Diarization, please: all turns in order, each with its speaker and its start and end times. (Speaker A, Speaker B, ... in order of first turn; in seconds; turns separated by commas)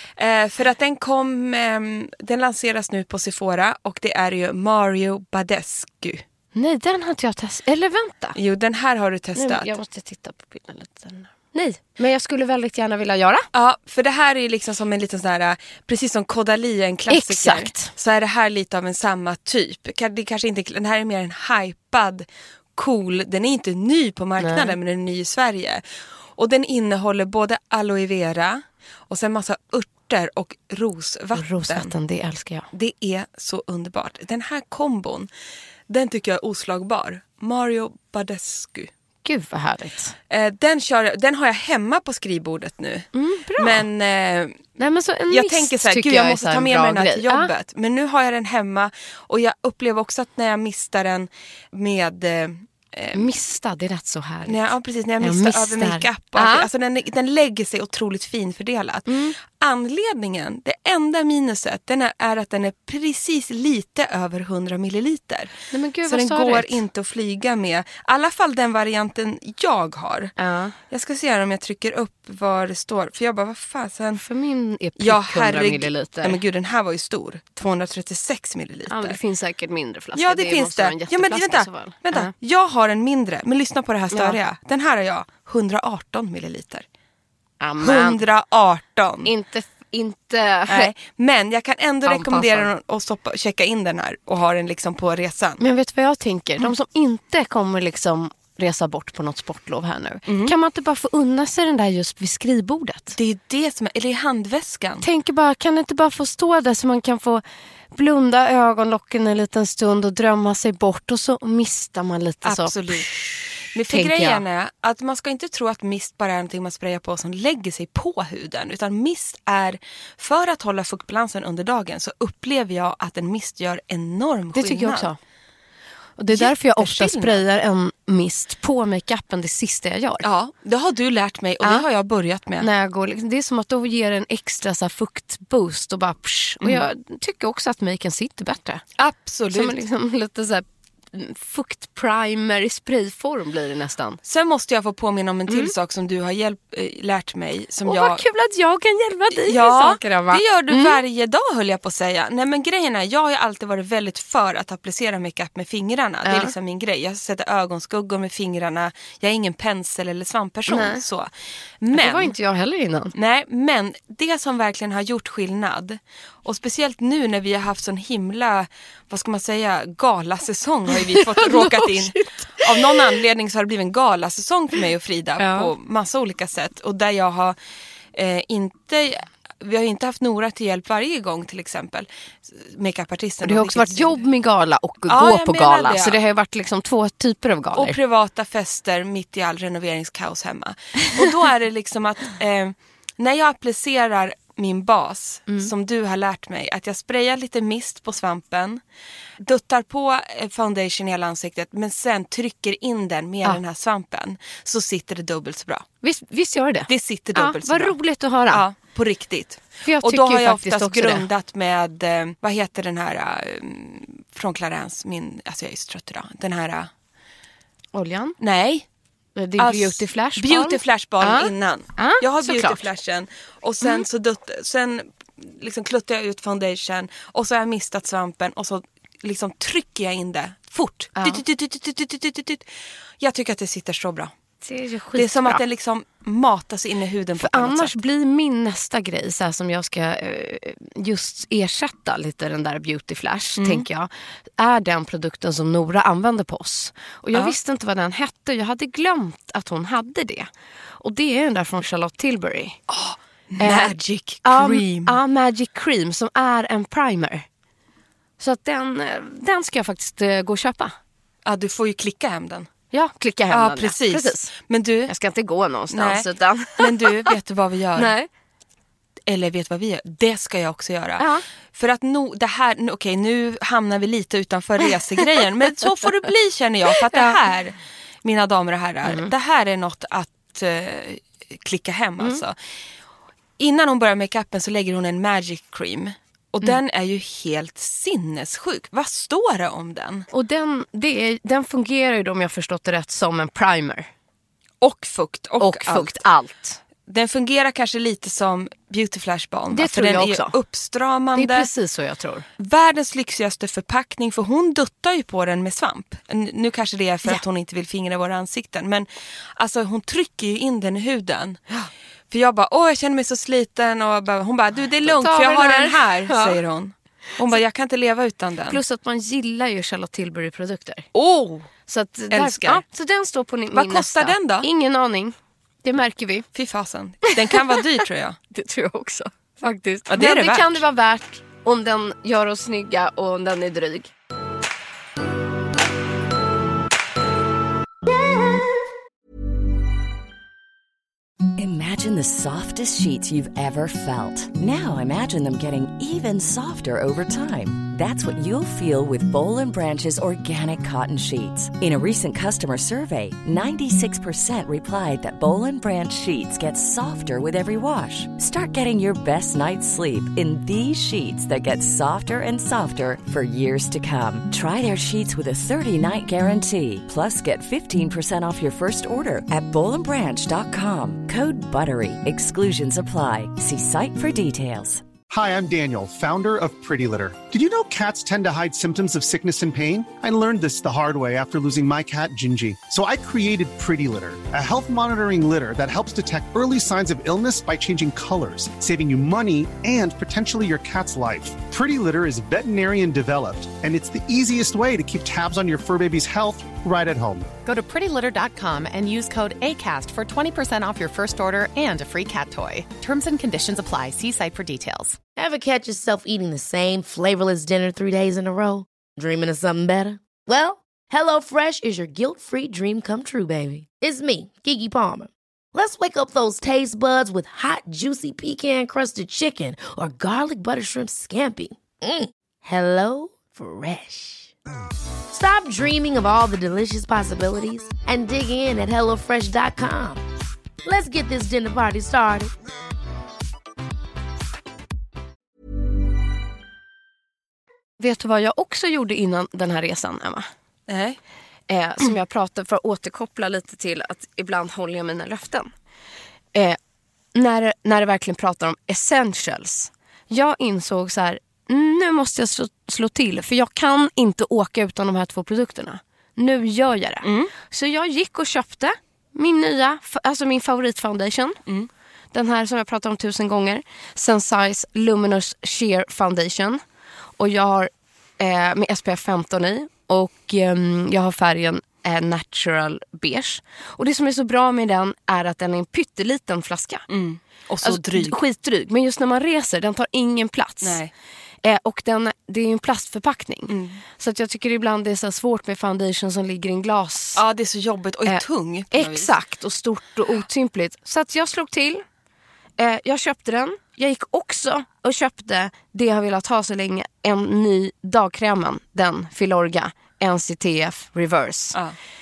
Speaker A: 0.2-6.2, Speaker B: 6.5-8.4, Speaker A: 8.3-9.7, Speaker B: 9.4-13.5, Speaker A: 13.5-25.8, Speaker B: 17.1-17.9, Speaker B: 24.4-24.8, Speaker A: 26.4-31.9, Speaker B: 31.4-32.7, Speaker A: 32.7-35.3, Speaker A: 35.9-38.9, Speaker B: 39.2-40.1, Speaker A: 40.3-44.7, Speaker B: 43.1-43.9, Speaker B: 44.8-47.5, Speaker A: 45.3-53.3, Speaker B: 53.1-56.7, Speaker A: 54.5-65.5, Speaker B: 59.1-59.4, Speaker B: 65.7-66.8, Speaker A: 66.0-70.3, Speaker B: 70.4-70.8, Speaker A: 70.9-74.2, Speaker B: 74.2-76.4, Speaker A: 75.0-79.2, Speaker B: 78.9-82.3, Speaker A: 80.2-86.8, Speaker B: 84.1-84.4, Speaker B: 87.6-88.2, Speaker A: 87.8-89.3, Speaker B: 89.2-90.9, Speaker A: 90.7-95.6, Speaker B: 92.0-92.7, Speaker B: 95.6-103.2, Speaker A: 100.3-100.5, Speaker A: 103.2-105.1, Speaker B: 105.0-114.4, Speaker A: 112.4-113.1, Speaker A: 113.7-125.1, Speaker B: 124.5-125.2, Speaker B: 126.2-130.3, Speaker A: 126.3-127.4, Speaker A: 130.2-132.7, Speaker B: 132.6-138.8, Speaker A: 139.0-139.8, Speaker B: 139.5-144.2, Speaker A: 144.2-148.2, Speaker B: 145.5-145.7, Speaker B: 147.8-151.0, Speaker A: 149.4-162.3, Speaker B: 156.2-156.6, Speaker B: 160.7-161.0, Speaker B: 161.9-163.1, Speaker A: 163.2-177.6, Speaker B: 170.9-173.1, Speaker B: 175.4-175.7, Speaker A: 178.2-184.2, Speaker B: 183.4-188.0, Speaker A: 185.1-186.2, Speaker A: 187.7-198.8, Speaker A: 199.4-205.9, Speaker B: 206.0-208.7, Speaker A: 206.9-208.0, Speaker A: 208.5-216.9, Speaker B: 209.8-211.3, Speaker B: 217.9-218.4, Speaker A: 218.4-218.9, Speaker B: 219.4-222.8, Speaker A: 219.6-232.7, Speaker B: 231.2-231.4, Speaker A: 233.2-234.3, Speaker B: 234.6-235.6, Speaker A: 235.2-237.9, Speaker B: 237.4-252.8, Speaker A: 243.6-243.9, Speaker A: 252.9-255.2, Speaker B: 253.6-257.5, Speaker B: 258.4-261.0, Speaker A: 261.5-262.7, Speaker B: 262.9-264.5, Speaker A: 263.5-265.1, Speaker B: 265.1-267.4, Speaker A: 265.9-266.3, Speaker A: 266.8-268.1, Speaker B: 268.0-268.3, Speaker A: 269.3-282.6, Speaker B: 271.2-271.4, Speaker B: 277.0-277.4, Speaker B: 279.0-279.3, Speaker A: 283.6-290.3, Speaker B: 290.3-294.1, Speaker A: 294.8-296.2, Speaker B: 295.6-296.8, Speaker A: 297.1-301.7, Speaker B: 299.7-300.6, Speaker B: 301.4-302.5, Speaker A: 302.6-311.6, Speaker A: 312.3-318.8, Speaker B: 315.0-316.6, Speaker B: 318.7-321.1, Speaker A: 321.1-321.7, Speaker B: 321.9-326.5, Speaker A: 322.3-322.8, Speaker A: 323.7-324.7, Speaker A: 326.6-328.4, Speaker B: 327.3-327.8, Speaker B: 328.5-334.1, Speaker A: 330.1-330.8, Speaker C: 341.6-375.0, Speaker D: 375.3-397.6, Speaker E: 397.6-405.2, Speaker F: 405.4-424.5, Speaker F: 425.3-430.2, Speaker F: 430.8-432.5, Speaker B: 438.0-440.5, Speaker A: 440.9-441.2, Speaker B: 441.7-445.7, Speaker B: 447.3-461.6, Speaker A: 457.2-457.5, Speaker B: 462.3-466.8, Speaker B: 467.4-477.1, Speaker A: 477.1-478.4, Speaker B: 477.8-481.0, Speaker A: 480.8-481.1, Speaker B: 481.6-487.4, Speaker A: 483.7-484.0, Speaker A: 487.4-489.3, Speaker B: 488.3-492.0, Speaker B: 492.8-501.8